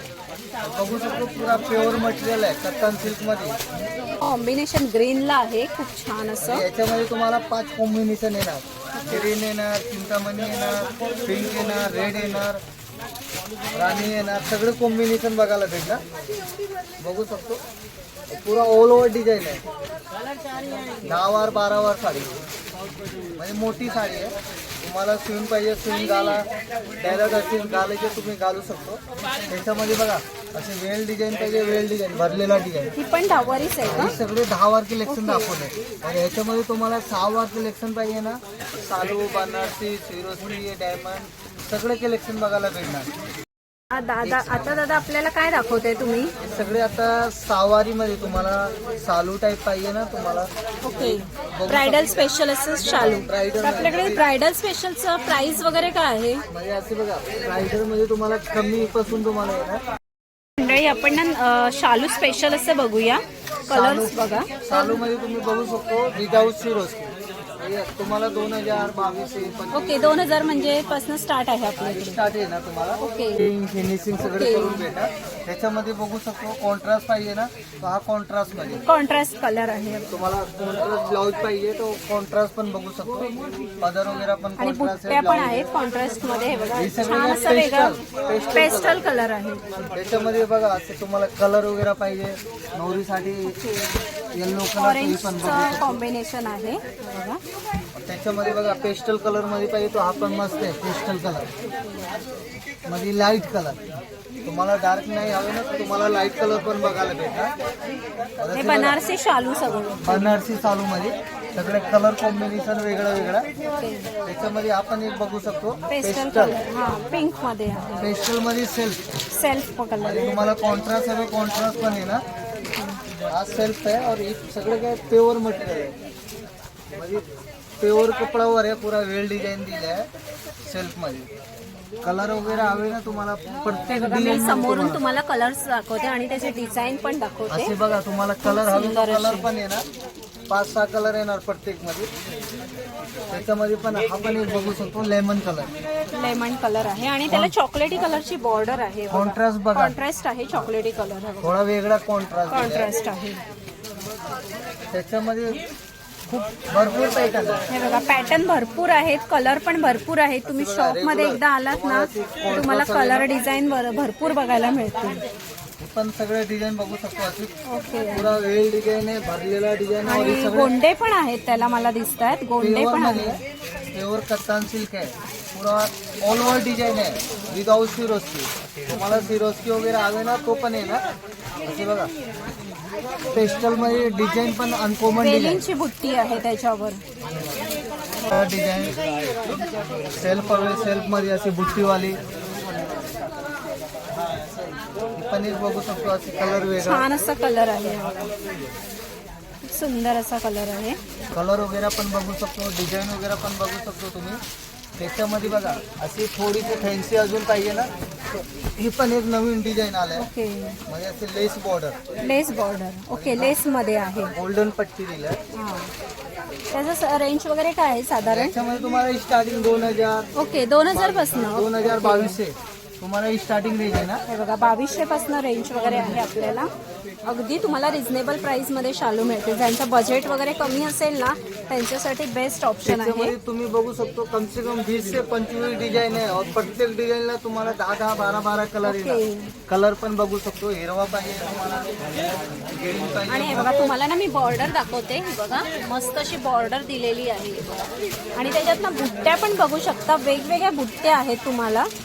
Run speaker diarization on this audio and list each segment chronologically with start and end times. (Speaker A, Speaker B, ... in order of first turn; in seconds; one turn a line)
Speaker A: 0.6-3.6
Speaker B: 4.2-6.6
Speaker A: 6.4-12.6
Speaker A: 13.8-16.0
Speaker A: 17.0-17.6
Speaker A: 18.3-19.6
Speaker A: 21.0-22.3
Speaker A: 23.4-26.4
Speaker A: 27.0-32.9
Speaker B: 33.0-34.1
Speaker A: 33.9-43.1
Speaker B: 35.1-35.5
Speaker B: 43.9-46.3
Speaker A: 44.2-44.8
Speaker A: 46.4-52.3
Speaker B: 50.8-56.4
Speaker A: 52.9-54.3
Speaker A: 56.5-59.8
Speaker B: 60.6-65.0
Speaker A: 63.7-70.2
Speaker B: 69.7-72.2
Speaker A: 71.8-78.8
Speaker B: 73.0-73.5
Speaker B: 74.2-74.9
Speaker B: 78.8-80.1
Speaker A: 80.1-85.7
Speaker B: 84.6-88.0
Speaker A: 86.7-89.0
Speaker B: 88.5-89.6
Speaker A: 89.9-93.6
Speaker B: 93.5-94.0
Speaker A: 94.3-96.0
Speaker B: 94.7-97.4
Speaker A: 98.0-101.5
Speaker A: 102.9-103.8
Speaker A: 104.5-107.5
Speaker A: 108.4-109.0
Speaker B: 108.5-110.4
Speaker A: 110.0-113.5
Speaker B: 113.7-114.1
Speaker A: 114.3-116.6
Speaker B: 115.9-118.0
Speaker A: 118.0-119.0
Speaker B: 119.3-120.5
Speaker A: 120.0-122.2
Speaker A: 123.3-126.0
Speaker A: 126.9-127.2
Speaker A: 127.8-130.1
Speaker A: 130.6-131.3
Speaker A: 132.0-135.0
Speaker B: 134.0-137.7
Speaker A: 137.5-139.8
Speaker B: 138.4-139.5
Speaker A: 140.5-142.1
Speaker A: 143.3-145.7
Speaker B: 146.1-151.5
Speaker A: 147.3-147.5
Speaker A: 149.1-149.9
Speaker A: 151.4-152.9
Speaker B: 152.5-153.4
Speaker A: 154.9-155.6
Speaker A: 156.3-157.7
Speaker B: 157.7-165.2
Speaker A: 160.4-163.3
Speaker A: 165.8-167.5
Speaker B: 167.7-168.3
Speaker A: 168.1-170.7
Speaker B: 170.1-173.4
Speaker A: 172.6-173.4
Speaker A: 173.9-181.0
Speaker A: 181.6-182.1
Speaker A: 183.3-185.7
Speaker B: 185.2-187.0
Speaker A: 188.3-189.0
Speaker A: 190.2-192.2
Speaker A: 195.2-197.1
Speaker B: 196.8-198.3
Speaker B: 199.7-201.0
Speaker A: 201.3-204.4
Speaker A: 205.0-207.9
Speaker A: 208.8-210.3
Speaker B: 210.2-210.8
Speaker A: 210.9-212.0
Speaker B: 212.2-214.3
Speaker A: 213.1-213.6
Speaker A: 214.3-215.4
Speaker B: 215.5-215.9
Speaker B: 216.7-218.5
Speaker A: 218.2-220.3
Speaker B: 220.3-222.4
Speaker A: 220.9-224.2
Speaker B: 224.3-226.7
Speaker B: 227.2-233.3
Speaker A: 232.8-241.9
Speaker B: 238.8-239.5
Speaker A: 242.7-243.8
Speaker B: 243.3-251.9